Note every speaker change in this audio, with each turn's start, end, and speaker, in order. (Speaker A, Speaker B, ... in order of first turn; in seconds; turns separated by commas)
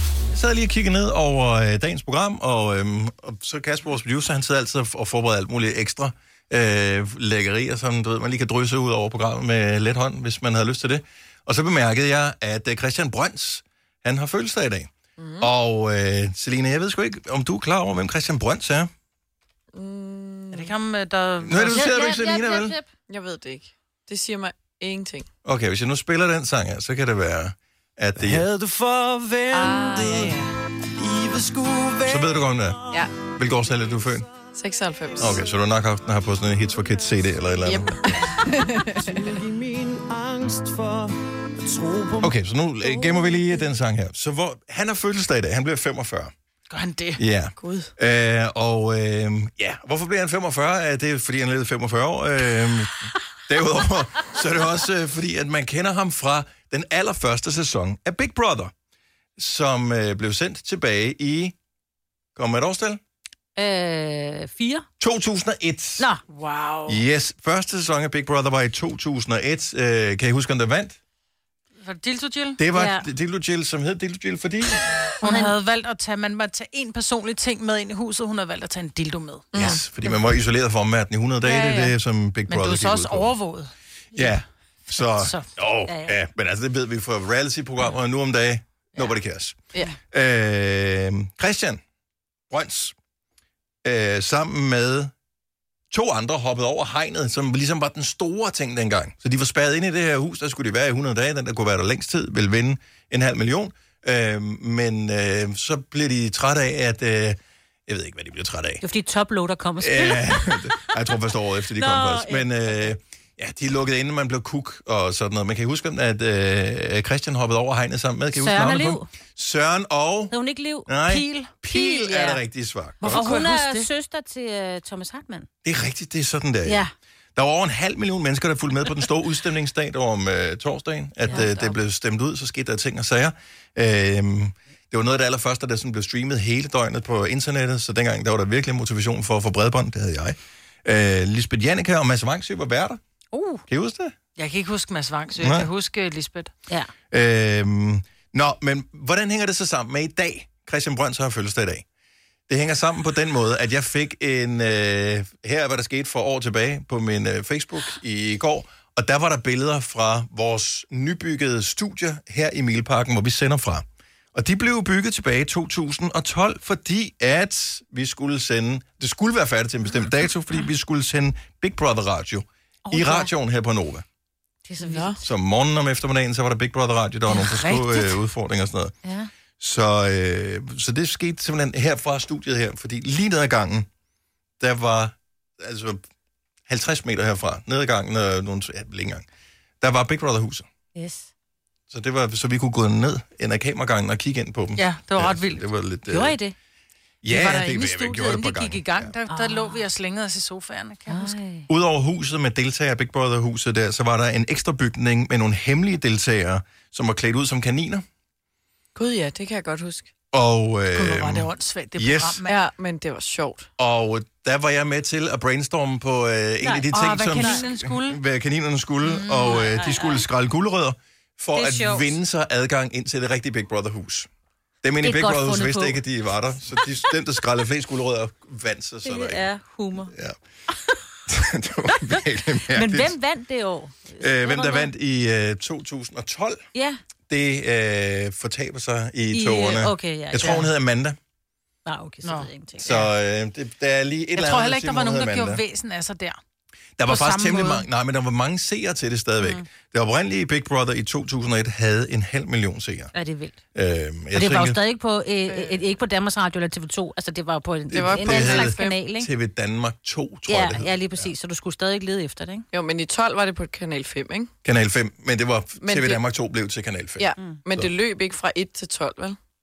Speaker A: 0.3-18.9, Speaker B: 15.2-15.5, Speaker B: 19.7-20.7, Speaker C: 20.5-22.0, Speaker A: 21.4-22.8, Speaker D: 21.7-22.9, Speaker B: 23.1-25.3, Speaker A: 25.4-28.5, Speaker E: 28.3-30.4, Speaker B: 29.5-30.4, Speaker E: 30.9-32.2, Speaker A: 32.0-34.3, Speaker B: 34.5-35.4, Speaker A: 35.2-38.0, Speaker B: 37.6-39.4, Speaker E: 38.9-42.3, Speaker A: 42.2-46.3, Speaker C: 46.7-47.2, Speaker A: 47.2-58.7, Speaker B: 47.6-47.9, Speaker A: 59.4-61.5, Speaker A: 62.4-63.0, Speaker D: 63.6-64.8, Speaker A: 65.0-66.1, Speaker C: 66.3-67.0, Speaker A: 66.9-71.0, Speaker C: 71.8-72.6, Speaker A: 72.6-75.0, Speaker D: 72.7-73.0, Speaker C: 75.2-79.8, Speaker D: 75.2-75.5, Speaker B: 79.5-79.8, Speaker A: 79.5-83.4, Speaker C: 81.5-81.9, Speaker C: 82.5-84.3, Speaker A: 84.1-91.8, Speaker C: 85.0-85.5, Speaker D: 85.9-86.2, Speaker A: 92.5-93.0, Speaker A: 93.8-95.1, Speaker A: 95.9-108.8, Speaker D: 108.8-111.2, Speaker A: 109.8-123.3, Speaker D: 111.7-112.9, Speaker D: 118.3-119.1, Speaker D: 120.3-122.4, Speaker C: 121.1-121.5, Speaker C: 123.0-123.9, Speaker D: 123.1-125.5, Speaker A: 125.7-126.8, Speaker D: 126.7-126.9, Speaker A: 127.4-143.0, Speaker D: 131.3-131.8, Speaker D: 143.3-143.6, Speaker A: 143.7-144.2, Speaker C: 144.4-146.5, Speaker A: 145.4-145.7, Speaker A: 147.1-151.8, Speaker A: 152.5-174.0, Speaker D: 172.9-173.3, Speaker D: 174.7-175.2, Speaker B: 174.8-175.2, Speaker A: 175.2-178.9, Speaker C: 177.3-178.2, Speaker D: 179.1-179.3, Speaker A: 179.6-183.9, Speaker A: 184.6-186.0, Speaker A: 186.7-189.3, Speaker A: 189.8-190.7, Speaker D: 190.9-191.3, Speaker A: 191.9-196.4, Speaker C: 194.8-195.7, Speaker D: 196.1-196.6, Speaker A: 197.2-199.1, Speaker C: 197.3-201.4, Speaker D: 199.3-199.8, Speaker D: 201.1-201.7, Speaker A: 201.7-208.0, Speaker B: 208.9-210.1, Speaker A: 210.3-212.4, Speaker C: 210.9-212.6, Speaker B: 212.5-213.7, Speaker A: 213.8-224.3, Speaker D: 216.6-217.7, Speaker C: 216.9-218.2, Speaker C: 219.0-219.7, Speaker D: 219.5-220.3, Speaker D: 221.6-222.1, Speaker A: 224.8-229.5, Speaker D: 225.0-226.0, Speaker D: 229.1-230.1, Speaker A: 230.1-230.3, Speaker A: 231.3-233.2, Speaker D: 232.6-234.9, Speaker A: 234.2-236.6, Speaker D: 236.8-237.0, Speaker A: 237.3-241.2, Speaker D: 239.3-240.7, Speaker D: 241.9-243.0, Speaker C: 242.2-243.1, Speaker A: 242.8-245.6, Speaker C: 244.3-246.4, Speaker A: 247.0-253.1, Speaker C: 247.1-247.9, Speaker D: 253.1-253.6, Speaker A: 253.7-254.8, Speaker D: 254.3-259.3, Speaker B: 255.5-255.9, Speaker A: 257.9-261.3, Speaker B: 257.9-259.0, Speaker D: 260.5-262.7, Speaker B: 262.7-264.5, Speaker A: 264.6-267.9, Speaker B: 265.8-266.2, Speaker B: 267.2-269.4